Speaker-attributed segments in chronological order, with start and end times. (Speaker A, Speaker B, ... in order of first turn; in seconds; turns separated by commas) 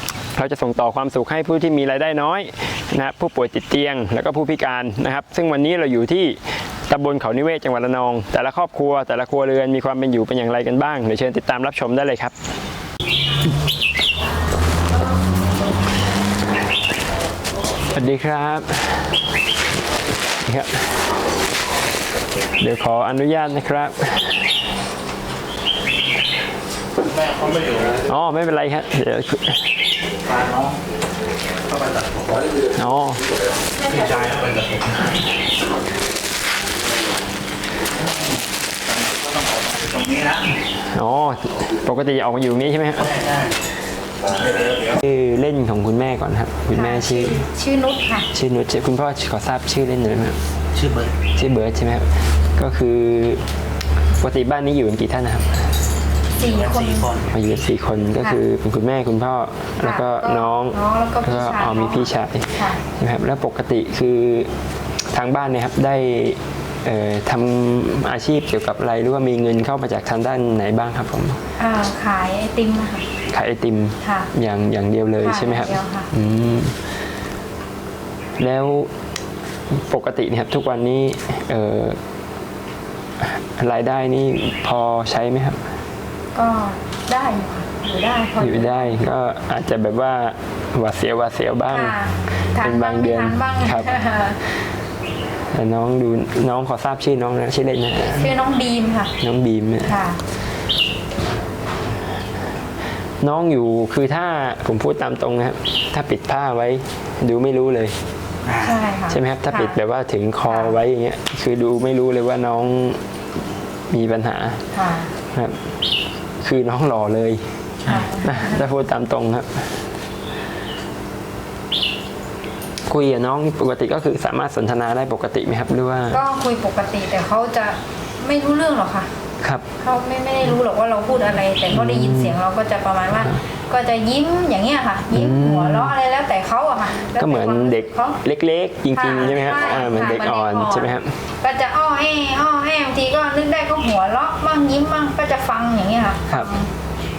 Speaker A: 0.3-12.3, Speaker A: 17.9-19.2, Speaker A: 20.4-21.0, Speaker A: 22.6-24.6, Speaker B: 27.4-28.0, Speaker A: 28.1-29.9, Speaker B: 30.3-30.8, Speaker B: 31.7-32.4, Speaker A: 32.7-33.2, Speaker B: 33.9-34.8, Speaker B: 39.1-40.4, Speaker A: 40.6-43.3, Speaker A: 44.9-47.5, Speaker C: 46.7-48.3, Speaker A: 48.3-50.4, Speaker B: 50.8-51.1, Speaker A: 51.4-53.4, Speaker A: 54.2-55.7, Speaker B: 56.4-57.3, Speaker C: 56.4-57.1, Speaker A: 57.3-64.5, Speaker C: 60.6-62.0, Speaker A: 65.1-71.4, Speaker C: 71.6-73.0, Speaker A: 73.3-76.9, Speaker C: 74.0-74.3, Speaker C: 75.2-76.1, Speaker A: 78.4-78.9, Speaker A: 79.7-82.0, Speaker A: 83.2-85.6, Speaker C: 86.3-88.9, Speaker A: 88.4-94.4, Speaker C: 91.7-94.4, Speaker A: 95.5-98.4, Speaker C: 98.1-99.2, Speaker A: 99.2-100.2, Speaker C: 99.9-100.2, Speaker A: 103.2-108.0, Speaker B: 108.5-108.9, Speaker C: 108.6-109.7, Speaker A: 109.1-113.0, Speaker A: 113.9-115.7, Speaker C: 114.8-115.1, Speaker A: 116.4-119.8, Speaker A: 122.9-126.3, Speaker C: 126.1-129.1, Speaker C: 129.8-138.2, Speaker A: 131.7-132.4, Speaker A: 133.1-133.4, Speaker A: 135.1-135.9, Speaker A: 137.1-141.2, Speaker C: 138.9-140.9, Speaker C: 141.4-146.7, Speaker A: 146.3-146.6